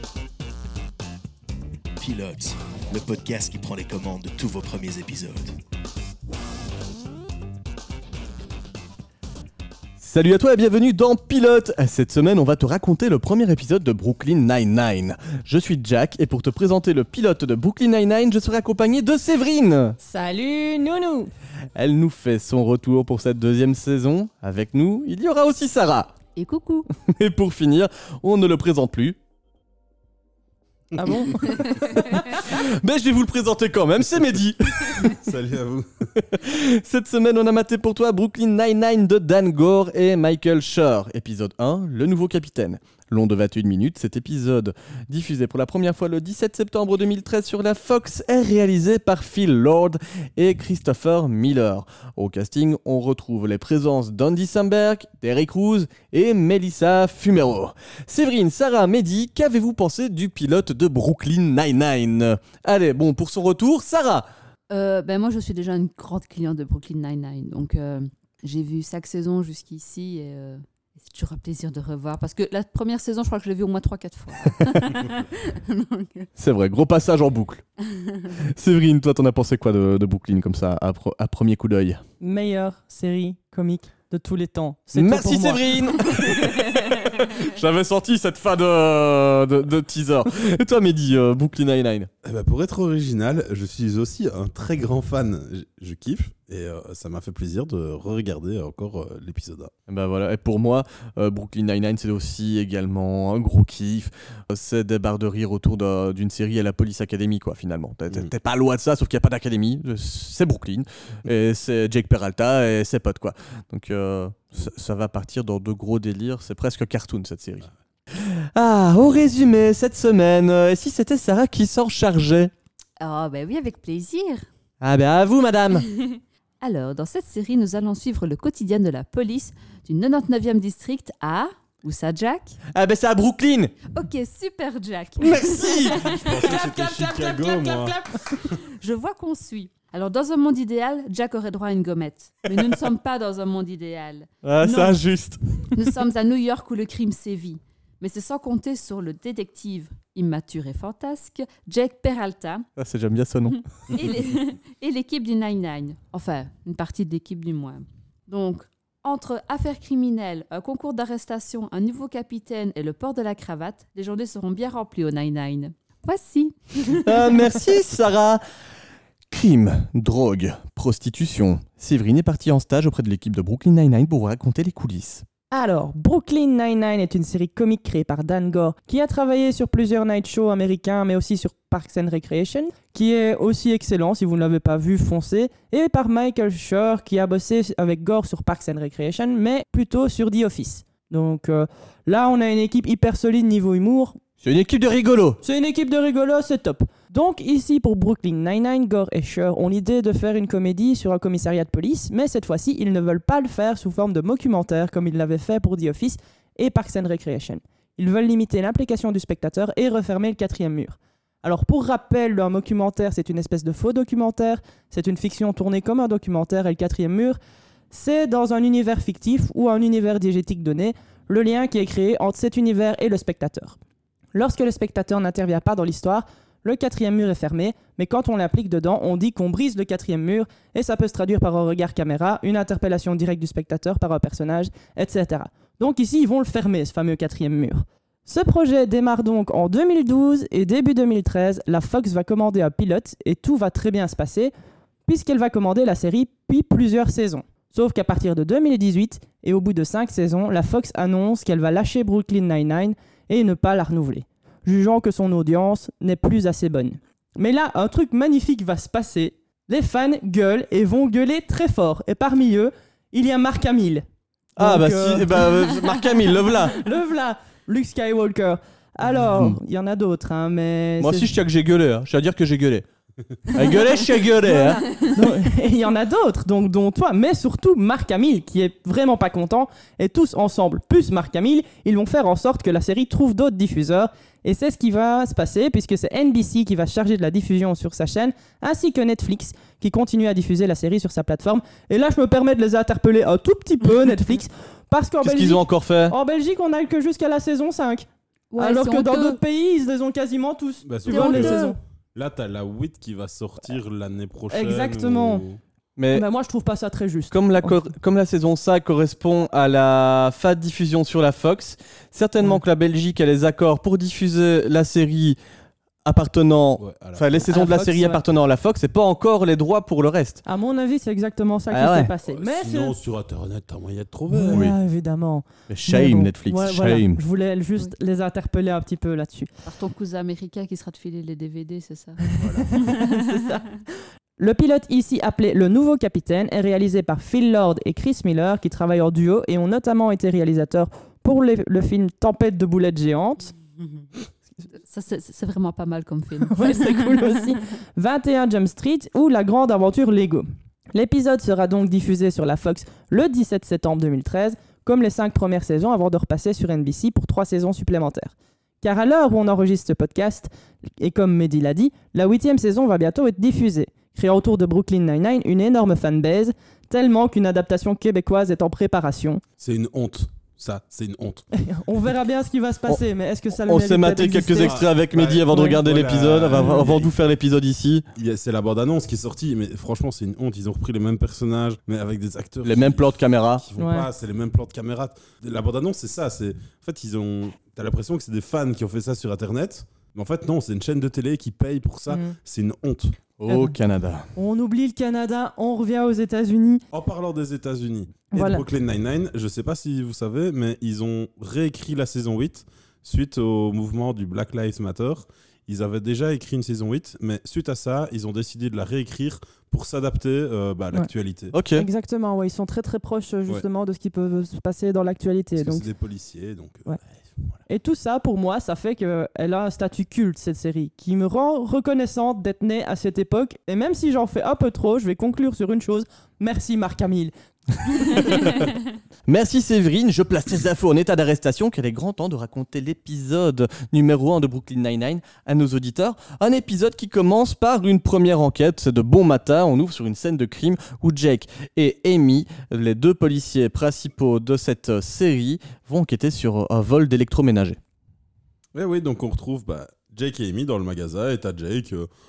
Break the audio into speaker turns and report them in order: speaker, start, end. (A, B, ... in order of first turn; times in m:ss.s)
0:02.0-0:05.6 A
0:10.0-0:20.0 B
0:20.0-0:21.3 C
0:21.7-0:26.1 B
0:26.4-0:26.9 D
0:27.0-0:29.2 B
0:30.9-0:31.6 E
0:30.9-0:32.0 C
0:32.0-0:35.1 B
0:35.0-0:36.1 E
0:36.2-1:04.3 B
1:04.7-1:16.3 D
1:16.4-1:17.6 B
1:17.9-1:18.3 D
1:18.6-1:22.0 B
1:22.2-1:26.2 C
1:24.9-1:32.1 B
1:32.2-1:39.7 E
1:39.9-2:02.5 B
2:03.0-2:04.5 D
2:04.8-2:05.8 B
2:05.9-2:12.6 D
2:12.7-2:13.7 B
2:13.9-2:16.6 D
2:15.2-2:16.1 B
2:15.8-2:18.6 E
2:16.3-2:18.0 C
2:18.5-2:25.0 D
2:24.4-2:25.7 B
2:25.7-2:32.7 D
2:32.8-2:33.6 B
2:33.5-2:47.5 D
2:47.0-2:48.4 B
2:49.3-2:55.2 B
2:55.5-3:14.2 C
3:14.4-3:15.4 B
3:15.4-3:37.4 C
3:37.9-3:43.8 C
3:44.3-4:04.5 C
4:05.1-4:24.0 C
4:24.6-4:26.8 B
4:24.6-4:31.3 C
4:29.1-4:29.6 B
4:31.0-4:32.8 B
4:33.5-4:34.8 B
4:33.6-4:58.0 C
4:55.2-4:56.1 B
4:58.5-4:59.4 D
4:58.6-5:01.8 C
5:00.8-5:01.6 E
5:01.1-5:01.7 D
5:02.1-5:05.6 E
5:04.5-5:05.4 C
5:06.0-5:06.2 B
5:06.1-5:07.7 C
5:07.3-5:15.4 B
5:16.0-5:20.4 B
5:16.8-5:17.3 E
5:17.5-5:18.2 C
5:20.4-5:23.0 C
5:21.7-5:22.1 B
5:22.2-5:24.7 E
5:24.3-5:29.5 C
5:25.7-5:27.2 B
5:29.6-5:32.2 D
5:32.3-5:33.8 C
5:32.4-5:32.8 E
5:32.8-5:33.2 D
5:34.4-5:43.5 C
5:43.8-5:44.1 D
5:44.6-5:47.4 D
5:46.5-6:09.4 C
6:09.6-6:11.4 E
6:11.6-6:14.8 C
6:12.9-6:18.0 B
6:14.5-6:17.1 E
6:15.5-6:15.8 C
6:16.5-6:16.8 C
6:18.1-6:33.2 E
6:22.6-6:23.6 B
6:23.8-6:24.1 C
6:32.1-6:32.4 C
6:33.4-6:34.3 B
6:33.5-6:33.8 C
6:34.3-6:36.8 C
6:36.9-6:51.6 E
6:38.3-6:38.6 C
6:51.5-6:51.9 B
6:51.7-6:55.8 C
6:55.6-6:57.6 E
6:57.7-7:07.3 C
7:07.8-7:08.5 C
7:08.2-7:08.6 B
7:09.3-7:27.8 B
7:28.7-7:32.1 E